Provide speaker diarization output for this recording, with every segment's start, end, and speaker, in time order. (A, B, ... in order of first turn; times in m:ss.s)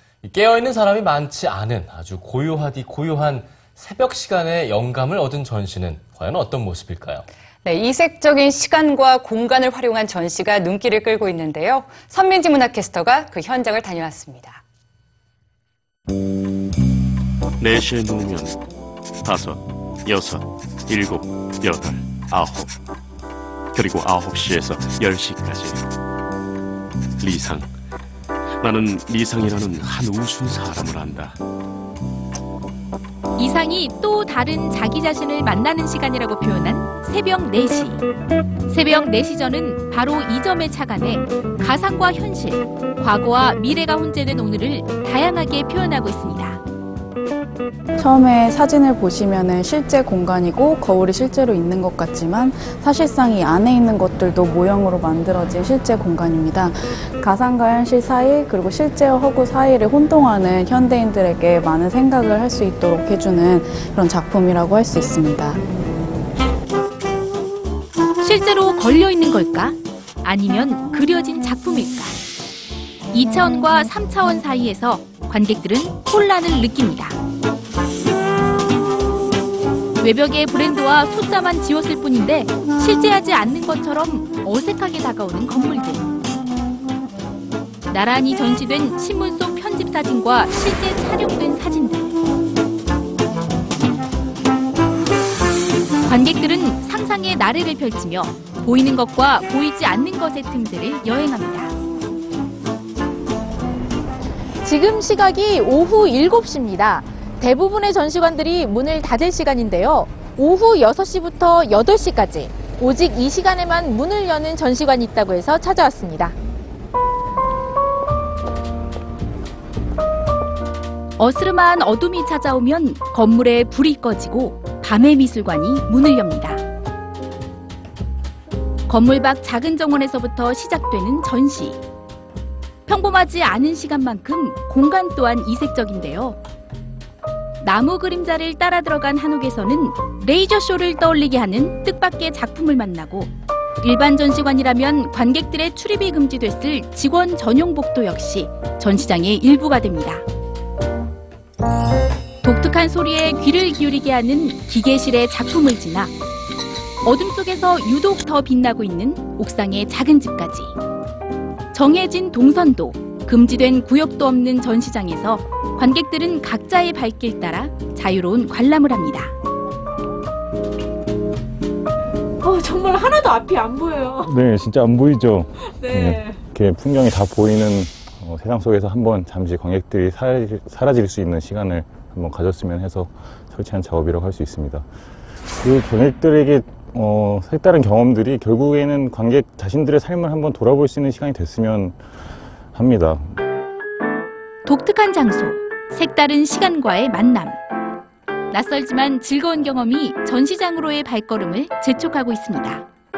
0:00.2-0:07.2 A
0:07.6-0:14.6 B
0:17.6-0:18.6 C
0:19.2-0:22.7 C
0:23.7-0:25.8 C
0:27.2-0:27.7 C
0:28.6-0:31.4 C
0:33.4-0:38.0 D
0:38.7-0:46.6 D
0:48.0-1:05.6 E
1:08.2-1:12.2 D
1:13.1-1:17.2 D
1:20.0-1:26.1 D
1:27.9-1:32.1 D
1:36.0-1:41.8 D
1:44.6-1:56.3 F
1:46.3-1:46.6 D
1:47.6-1:50.4 D
1:50.9-1:54.1 D
1:55.1-1:56.0 D
2:01.2-2:06.6 D
2:08.9-2:11.8 D
2:12.9-2:16.4 D
2:17.6-2:30.2 D
2:32.4-2:36.1 D
2:37.0-2:40.7 D
2:41.7-2:49.3 D
2:52.4-2:54.3 G
2:54.2-3:04.8 H
2:55.8-2:56.3 G
3:05.6-3:12.0 H
3:12.7-3:13.2 H
3:14.6-3:17.6 D
3:18.5-3:22.8 D